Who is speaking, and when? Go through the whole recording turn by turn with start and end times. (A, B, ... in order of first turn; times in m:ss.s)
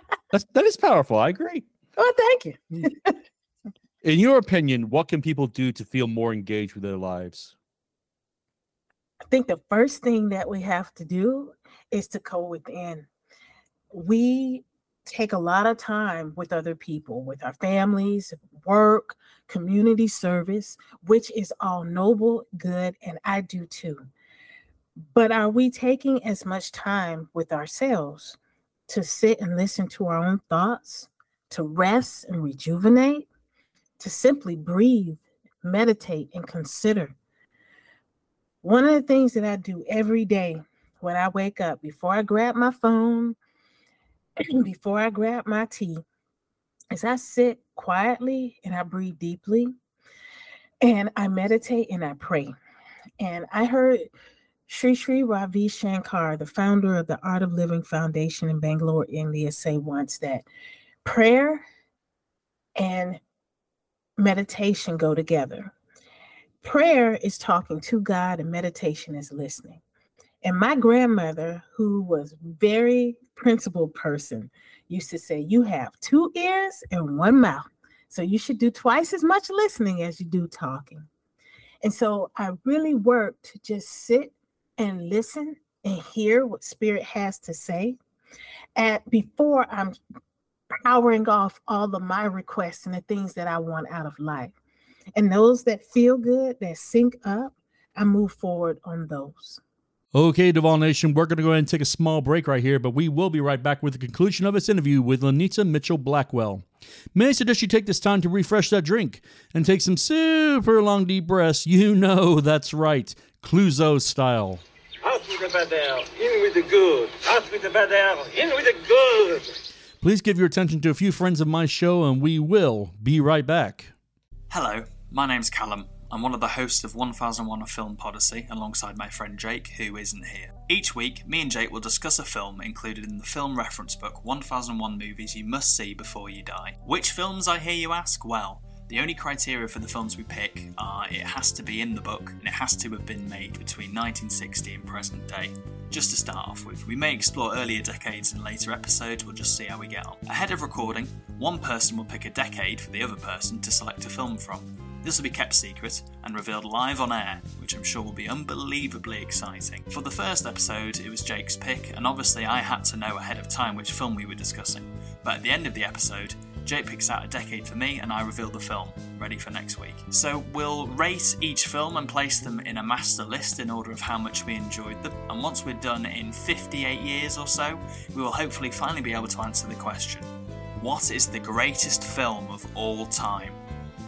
0:00.3-0:01.6 A
0:02.0-0:03.1 B
0:04.0-0:07.6 A
0:09.3-0:13.1 B
0:13.9-0:24.0 B
0:25.1-0:28.4 B
0:28.9-0:33.3 B
0:34.0-0:37.2 B
0:38.6-0:43.4 B
0:44.4-0:46.0 B
0:46.9-0:49.7 B
0:50.8-0:52.5 B
0:53.2-0:54.0 B
0:54.7-1:00.5 B
1:01.0-1:01.6 B
1:02.8-1:03.2 B
1:04.2-1:05.7 B
1:06.6-1:09.8 B
1:10.4-1:21.1 B
1:21.8-1:28.0 B
1:28.8-1:30.0 B
1:30.8-1:34.5 B
1:35.2-1:39.6 B
1:40.1-1:54.6 A
1:55.0-1:59.5 C
2:00.0-2:03.9 A
2:04.5-3:03.6 D